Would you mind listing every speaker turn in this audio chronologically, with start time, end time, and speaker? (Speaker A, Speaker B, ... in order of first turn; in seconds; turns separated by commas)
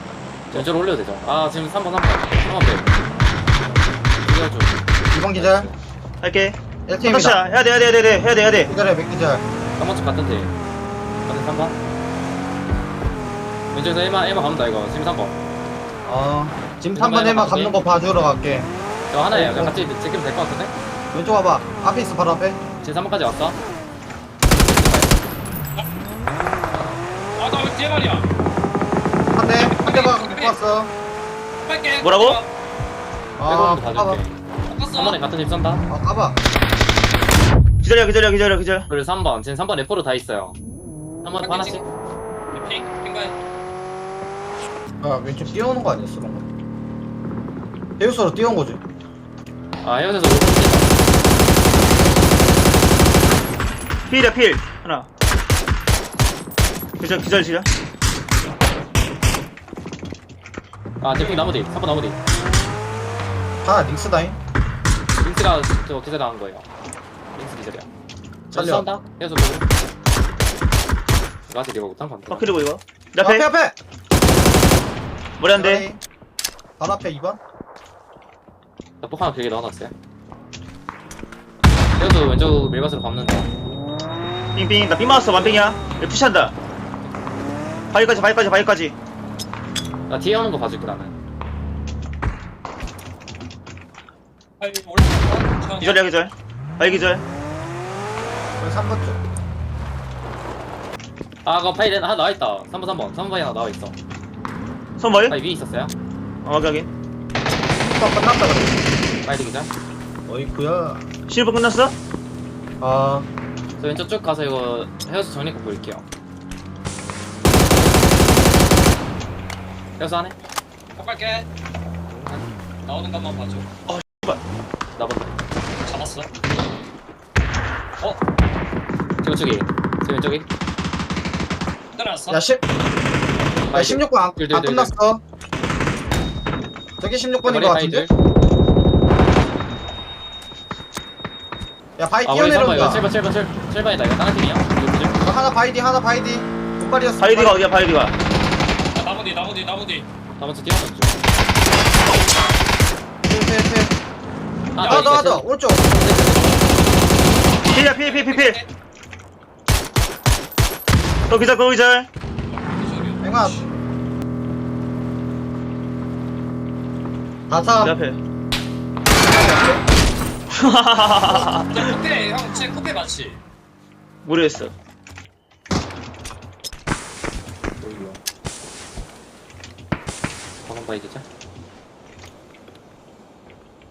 Speaker A: 0.5-2.9, Speaker A: 4.2-5.8, Speaker B: 5.1-5.7, Speaker C: 6.2-8.7, Speaker B: 6.8-7.4, Speaker B: 8.6-9.4, Speaker A: 9.8-10.5, Speaker A: 11.2-11.8, Speaker A: 13.7-15.4, Speaker B: 16.0-18.7, Speaker A: 16.9-17.8, Speaker A: 19.1-20.7, Speaker B: 19.3-19.9, Speaker B: 21.1-22.6, Speaker A: 22.8-23.6, Speaker A: 24.5-25.2, Speaker D: 26.7-28.3, Speaker B: 29.3-30.9, Speaker D: 29.6-30.6, Speaker D: 31.6-32.5, Speaker C: 32.0-32.4, Speaker B: 33.4-34.2, Speaker A: 33.5-34.4, Speaker D: 34.7-35.2, Speaker A: 34.9-35.9, Speaker B: 35.9-36.4, Speaker C: 37.8-38.9, Speaker A: 38.9-40.6, Speaker A: 41.2-41.8, Speaker D: 41.4-41.9, Speaker D: 42.5-43.4, Speaker B: 45.0-46.4, Speaker B: 48.0-48.8, Speaker A: 49.8-51.0, Speaker C: 54.1-55.1, Speaker C: 57.0-57.7, Speaker A: 61.0-62.2, Speaker D: 61.1-61.4, Speaker B: 63.6-64.4, Speaker A: 65.2-66.7, Speaker A: 67.3-67.9, Speaker A: 68.5-69.7, Speaker B: 68.5-68.9, Speaker A: 71.5-72.5, Speaker C: 72.3-73.5, Speaker B: 73.2-73.8, Speaker C: 75.4-75.9, Speaker B: 75.5-76.0, Speaker B: 76.8-77.4, Speaker A: 79.0-79.9, Speaker A: 82.0-83.5, Speaker C: 84.5-86.5, Speaker C: 87.9-89.0, Speaker A: 90.1-91.1, Speaker D: 94.6-96.1, Speaker C: 95.8-97.2, Speaker B: 98.6-99.2, Speaker A: 101.4-104.0, Speaker C: 105.0-105.4, Speaker A: 105.3-105.9, Speaker C: 106.4-106.9, Speaker B: 107.9-108.9, Speaker A: 109.2-109.7, Speaker B: 110.3-111.1, Speaker C: 111.3-112.0, Speaker B: 112.8-113.3, Speaker A: 113.8-116.0, Speaker A: 120.0-120.4, Speaker D: 121.0-121.5, Speaker A: 121.9-122.5, Speaker D: 122.8-123.7, Speaker C: 123.9-124.4, Speaker A: 125.0-125.4, Speaker D: 125.8-126.3, Speaker A: 129.2-130.5, Speaker D: 131.9-132.4, Speaker B: 132.3-132.6, Speaker A: 133.7-134.9, Speaker B: 133.7-135.2, Speaker B: 137.0-138.1, Speaker A: 137.4-138.1, Speaker B: 142.0-143.1, Speaker A: 142.2-145.2, Speaker B: 145.2-147.6, Speaker C: 147.2-148.1, Speaker D: 148.9-150.1, Speaker A: 150.4-151.2, Speaker B: 153.2-153.9, Speaker A: 154.7-156.7, Speaker D: 154.7-155.1, Speaker B: 154.8-156.0, Speaker C: 157.7-158.6, Speaker D: 157.9-158.7, Speaker C: 161.3-162.1, Speaker D: 162.6-163.7, Speaker B: 163.2-163.7, Speaker B: 167.5-167.9, Speaker C: 167.8-168.2, Speaker B: 169.1-169.8, Speaker C: 170.5-171.9, Speaker D: 171.3-173.4, Speaker C: 174.2-174.7, Speaker A: 177.8-178.2, Speaker A: 180.6-181.2